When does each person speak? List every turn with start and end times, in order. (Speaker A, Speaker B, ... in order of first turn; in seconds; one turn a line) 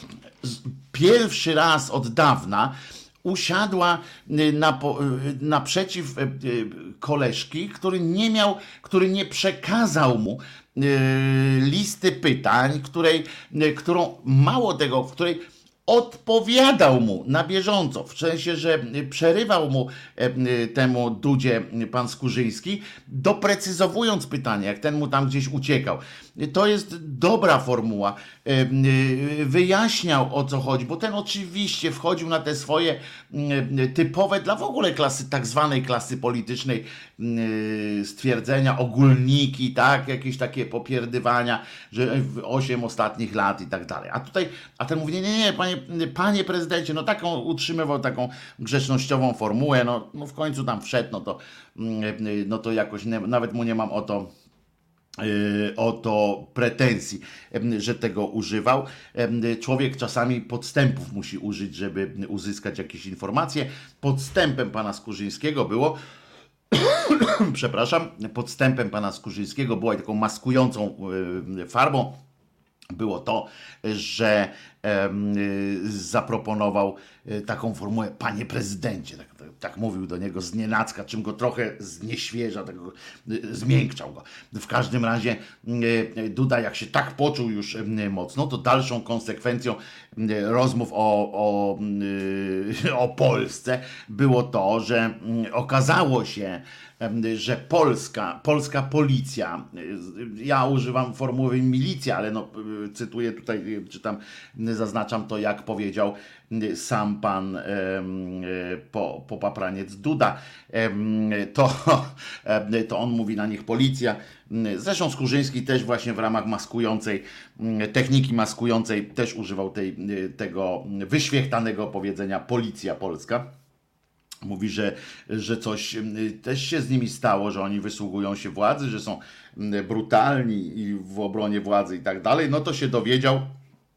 Speaker A: 0.4-54.3
Speaker A: 55.2-66.0
Speaker A: 66.7-72.2
Speaker A: 72.9-123.5
Speaker A: 124.4-133.5